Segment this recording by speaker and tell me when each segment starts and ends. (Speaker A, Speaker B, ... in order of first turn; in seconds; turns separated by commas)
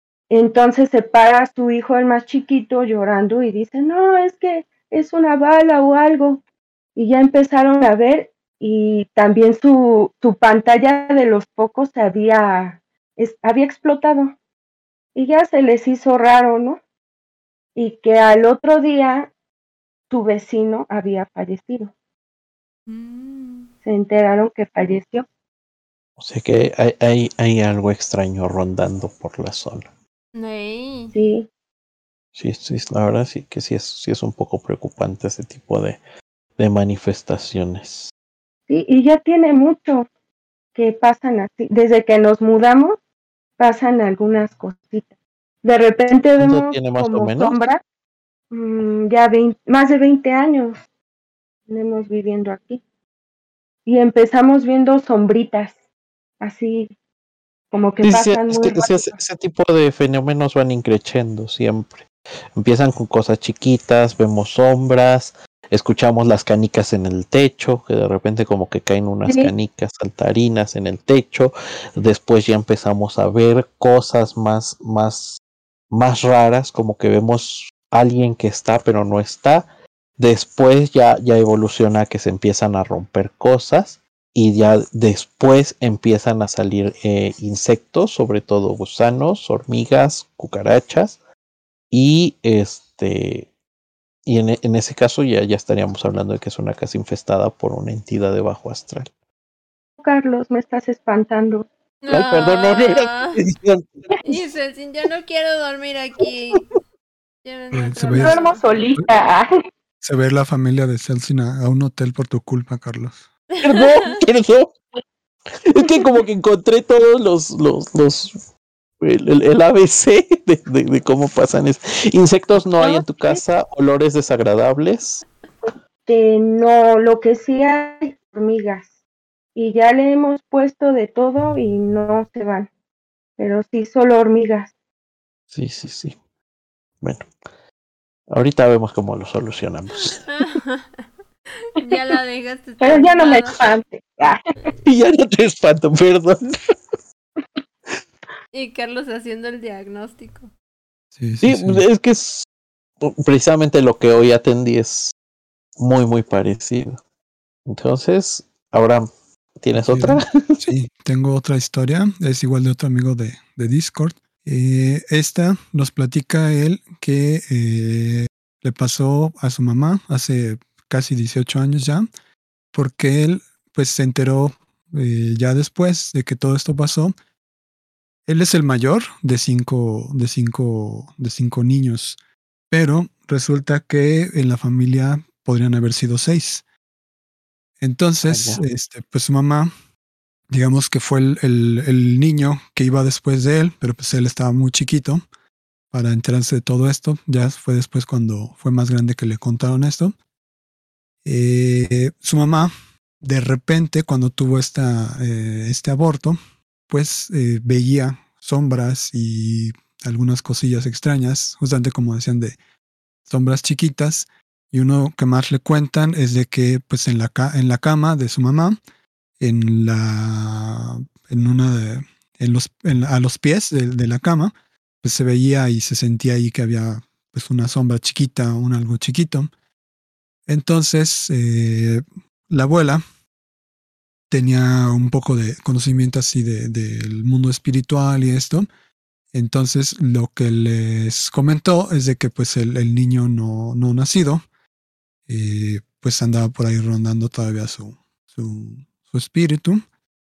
Speaker A: 0.3-6.4, Speaker A: 7.0-14.3, Speaker A: 15.2-16.8, Speaker A: 17.8-19.3, Speaker A: 20.1-21.9, Speaker B: 22.9-23.7, Speaker A: 23.8-25.2, Speaker C: 26.2-29.9, Speaker B: 30.3-31.1, Speaker A: 31.1-31.5, Speaker C: 32.4-36.0, Speaker C: 36.6-38.1, Speaker A: 38.7-40.1, Speaker A: 40.8-43.0, Speaker A: 43.6-45.1, Speaker A: 45.6-47.8, Speaker C: 46.4-47.6, Speaker A: 48.5-50.8, Speaker A: 51.7-52.8, Speaker A: 53.9-55.8, Speaker A: 56.4-56.9, Speaker A: 57.7-59.1, Speaker C: 58.0-62.1, Speaker C: 62.6-75.4, Speaker A: 69.3-69.5, Speaker C: 75.9-79.7, Speaker C: 80.2-91.2, Speaker C: 91.9-93.5, Speaker C: 94.3-99.1, Speaker A: 100.0-101.7, Speaker B: 102.0-103.4, Speaker C: 102.1-104.3, Speaker B: 104.2-106.7, Speaker B: 107.4-108.6, Speaker D: 107.7-108.4, Speaker A: 108.1-109.5, Speaker D: 110.0-113.2, Speaker B: 113.5-114.1, Speaker C: 113.6-114.7, Speaker C: 115.7-118.4, Speaker A: 115.8-116.1, Speaker C: 119.0-125.2, Speaker A: 122.8-123.4, Speaker A: 125.7-128.9, Speaker A: 129.6-132.7, Speaker A: 133.4-134.7, Speaker C: 135.5-136.2, Speaker C: 137.0-137.3, Speaker C: 138.3-140.2, Speaker B: 140.1-141.0, Speaker B: 141.6-143.6, Speaker A: 142.8-144.4, Speaker C: 144.8-146.5, Speaker B: 148.5-150.5, Speaker D: 151.2-151.8, Speaker C: 151.4-152.5, Speaker C: 153.0-155.1, Speaker C: 155.8-157.0, Speaker C: 157.7-159.1, Speaker C: 159.6-160.6, Speaker D: 159.8-172.1, Speaker D: 172.7-177.1, Speaker D: 178.3-182.2, Speaker D: 182.7-186.6, Speaker D: 187.8-189.7, Speaker C: 188.3-188.6, Speaker D: 190.5-195.2, Speaker D: 195.9-200.2, Speaker D: 201.2-206.4, Speaker D: 206.9-212.6, Speaker D: 213.3-218.8, Speaker D: 219.4-229.5, Speaker D: 230.5-233.0, Speaker D: 234.3-238.7, Speaker D: 239.3-244.4, Speaker D: 245.3-249.8